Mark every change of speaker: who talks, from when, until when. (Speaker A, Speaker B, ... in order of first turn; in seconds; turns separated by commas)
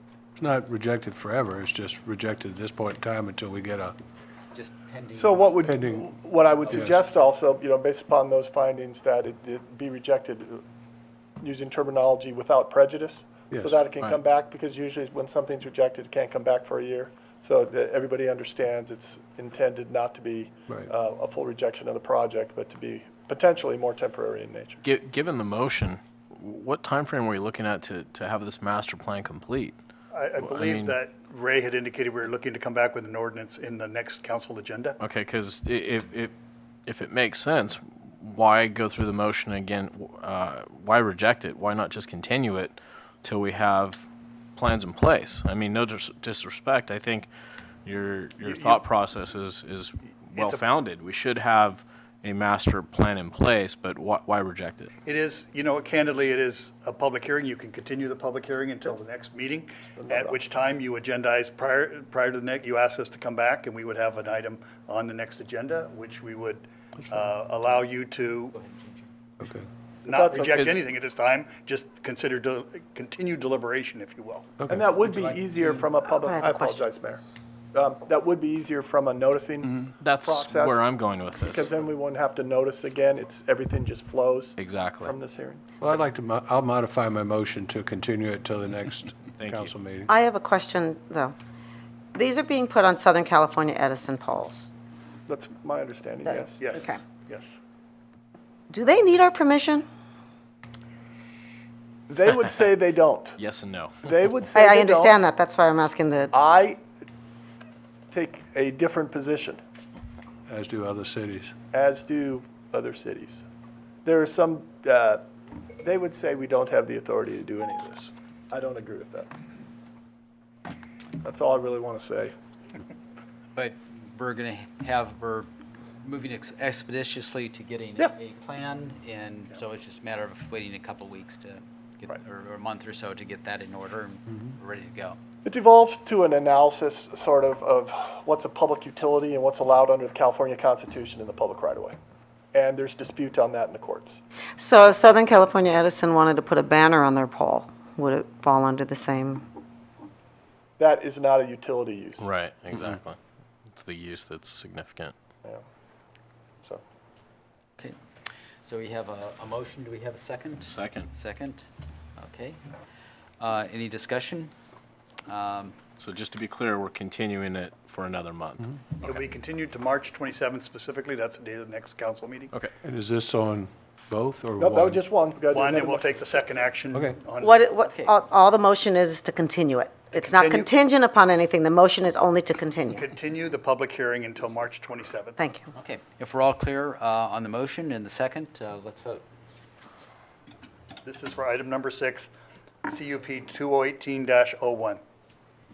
Speaker A: 0.4-4.0, Speaker B: 4.5-5.5, Speaker C: 5.2-10.6, Speaker A: 5.6-6.1, Speaker B: 6.6-7.0, Speaker A: 6.7-7.0, Speaker C: 11.4-24.8, Speaker A: 13.5-13.8, Speaker D: 24.8-29.8, Speaker E: 30.3-34.9, Speaker D: 30.4-31.0, Speaker D: 35.0-36.3, Speaker D: 36.9-47.3, Speaker D: 47.8-54.9, Speaker E: 55.2-68.4, Speaker C: 59.9-60.4, Speaker B: 68.5-69.1, Speaker A: 69.4-69.7, Speaker C: 70.1-70.8, Speaker D: 70.4-70.8, Speaker E: 70.6-74.5, Speaker C: 74.7-77.2, Speaker F: 76.2-76.8, Speaker C: 77.7-80.8, Speaker D: 80.0-81.7, Speaker C: 81.4-85.6, Speaker D: 84.6-85.2, Speaker A: 85.8-90.1, Speaker D: 89.4-89.7, Speaker F: 90.1-91.3, Speaker F: 92.1-94.7, Speaker C: 95.3-96.9, Speaker F: 96.3-97.0, Speaker F: 98.7-99.9, Speaker C: 102.1-103.4, Speaker D: 103.4-104.0, Speaker C: 104.0-105.2, Speaker F: 104.5-106.3, Speaker C: 106.3-106.8, Speaker C: 108.1-109.6, Speaker A: 110.5-111.5, Speaker C: 111.7-113.5, Speaker C: 114.0-115.2, Speaker C: 115.8-119.3, Speaker C: 121.2-122.3, Speaker B: 123.5-125.5, Speaker B: 126.0-135.2, Speaker C: 135.4-142.0, Speaker C: 142.5-144.2, Speaker F: 144.6-149.4, Speaker C: 150.8-152.3, Speaker D: 152.2-153.2, Speaker D: 153.7-155.1, Speaker B: 158.6-161.7, Speaker D: 160.7-161.1, Speaker B: 162.2-162.6, Speaker B: 163.4-164.5, Speaker B: 165.3-165.8, Speaker D: 166.0-169.2, Speaker E: 169.4-172.5, Speaker A: 172.8-175.0, Speaker C: 174.6-176.6, Speaker E: 175.8-177.5, Speaker A: 176.9-177.2, Speaker F: 177.4-183.1, Speaker B: 177.8-178.1, Speaker E: 183.2-185.2, Speaker F: 185.3-185.7, Speaker B: 185.8-189.2, Speaker E: 191.1-192.3, Speaker E: 192.9-195.0